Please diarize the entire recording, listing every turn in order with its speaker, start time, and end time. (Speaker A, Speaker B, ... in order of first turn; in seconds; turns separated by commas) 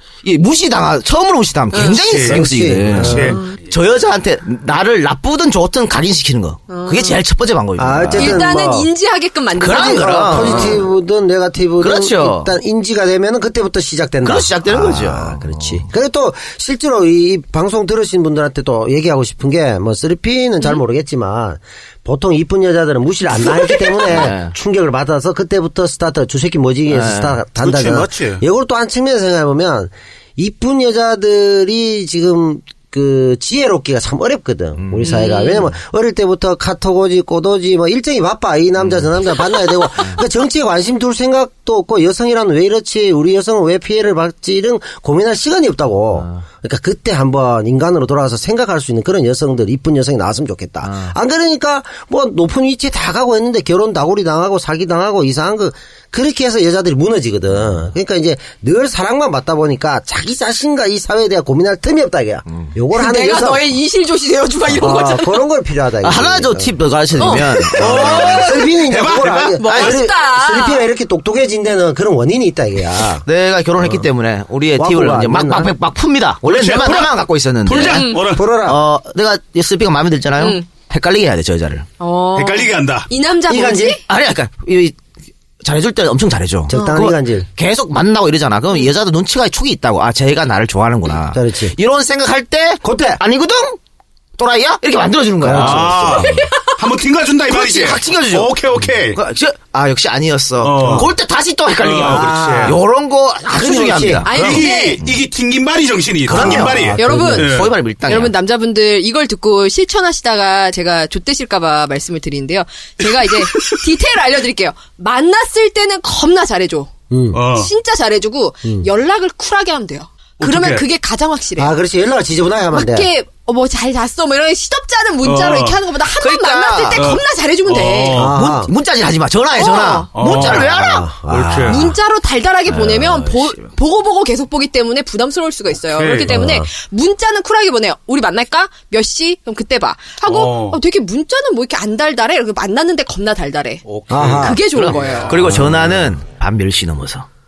Speaker A: 0.2-8.4, Speaker B: 1.7-2.0, Speaker C: 1.8-3.5, Speaker D: 2.1-3.4, Speaker B: 6.7-7.2, Speaker D: 7.8-8.9, Speaker B: 8.2-10.8, Speaker A: 9.6-10.9, Speaker D: 9.6-63.7, Speaker A: 11.8-12.5, Speaker A: 14.2-15.8, Speaker A: 24.1-24.6, Speaker A: 26.9-27.4, Speaker C: 27.6-28.4, Speaker A: 34.8-35.2, Speaker B: 35.0-35.7, Speaker A: 38.8-39.1, Speaker A: 50.8-51.1, Speaker B: 62.9-65.4, Speaker D: 64.7-73.2, Speaker A: 66.0-68.5, Speaker B: 67.2-68.7, Speaker C: 67.8-69.7, Speaker B: 69.6-70.9, Speaker A: 69.7-70.0, Speaker A: 73.1-81.9, Speaker D: 73.8-74.1, Speaker D: 74.7-75.8, Speaker C: 76.4-78.5, Speaker B: 77.9-78.3, Speaker D: 78.2-78.8, Speaker B: 80.4-80.7, Speaker B: 82.0-84.0, Speaker C: 82.3-83.1, Speaker D: 83.5-84.0, Speaker A: 84.1-85.0, Speaker A: 85.6-93.8, Speaker D: 86.7-87.5, Speaker B: 86.7-87.0, Speaker D: 91.3-91.8, Speaker D: 92.8-93.2, Speaker A: 94.4-96.4, Speaker D: 95.4-96.4, Speaker C: 95.5-99.2, Speaker A: 97.5-104.7, Speaker C: 100.6-101.1, Speaker D: 100.8-101.1, Speaker C: 101.8-102.8, Speaker D: 102.0-102.8, Speaker D: 103.5-104.3, Speaker B: 104.2-105.0, Speaker C: 104.3-107.7, Speaker A: 106.3-108.3, Speaker D: 106.3-107.6, Speaker B: 106.3-116.9, Speaker D: 117.1-117.4, Speaker C: 117.3-117.7, Speaker B: 117.5-121.8, Speaker C: 120.4-120.8, Speaker D: 121.6-123.1, Speaker B: 122.7-128.2, Speaker C: 125.2-125.8, Speaker A: 126.2-127.1, Speaker C: 126.9-128.4, Speaker D: 128.1-128.7, Speaker A: 128.3-131.1, Speaker B: 129.5-130.1, Speaker C: 130.1-130.8, Speaker D: 130.4-131.9, Speaker C: 131.3-131.9, Speaker B: 131.7-145.3, Speaker A: 132.7-133.7, Speaker C: 135.7-136.4, Speaker D: 136.2-136.7, Speaker C: 140.3-140.8, Speaker C: 143.8-144.6, Speaker D: 144.1-144.6, Speaker A: 144.6-147.3, Speaker C: 145.2-145.7